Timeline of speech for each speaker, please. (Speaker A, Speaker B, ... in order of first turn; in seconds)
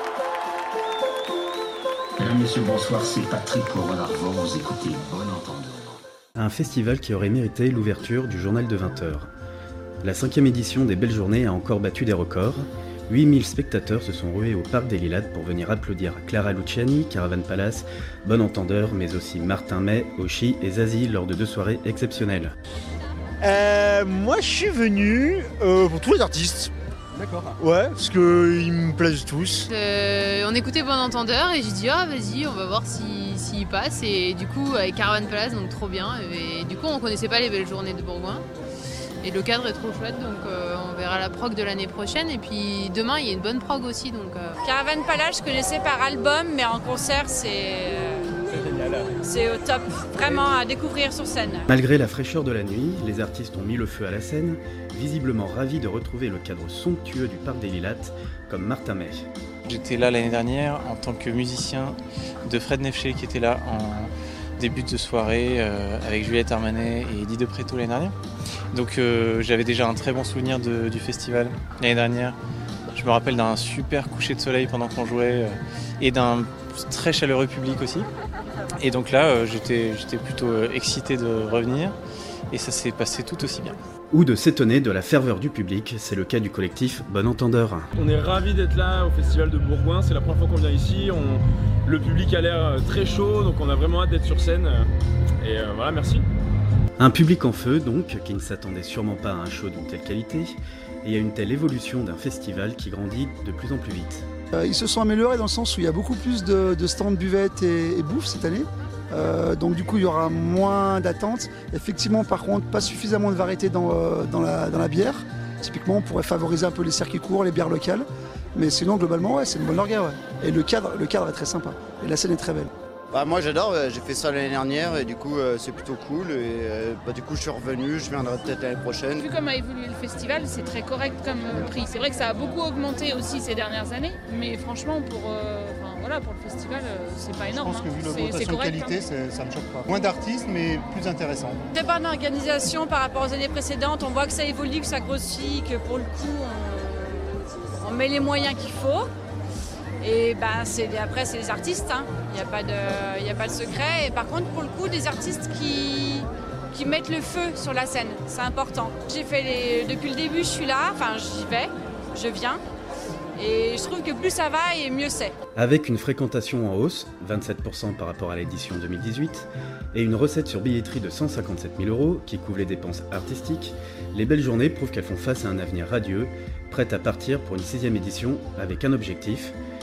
Speaker A: 2.2-6.0
Speaker B: 6.4-9.3, 10.0-22.5, 51.7-59.3, 84.1-87.9, 97.0-104.2, 165.6-179.6
Speaker C: 23.4-26.7, 27.6-29.7
Speaker D: 29.7-38.5, 39.2-44.6
Speaker E: 44.6-48.4, 49.2-51.7, 141.7-149.1, 150.0-162.6, 163.4-165.3
Speaker F: 59.6-68.2, 68.7-72.4, 72.9-78.1, 78.8-82.0, 82.5-83.8
Speaker G: 88.0-94.9, 95.4-96.2
Speaker H: 104.5-118.0, 118.6-122.7
Speaker I: 123.1-129.3
Speaker J: 129.2-139.0
Speaker K: 137.5-141.6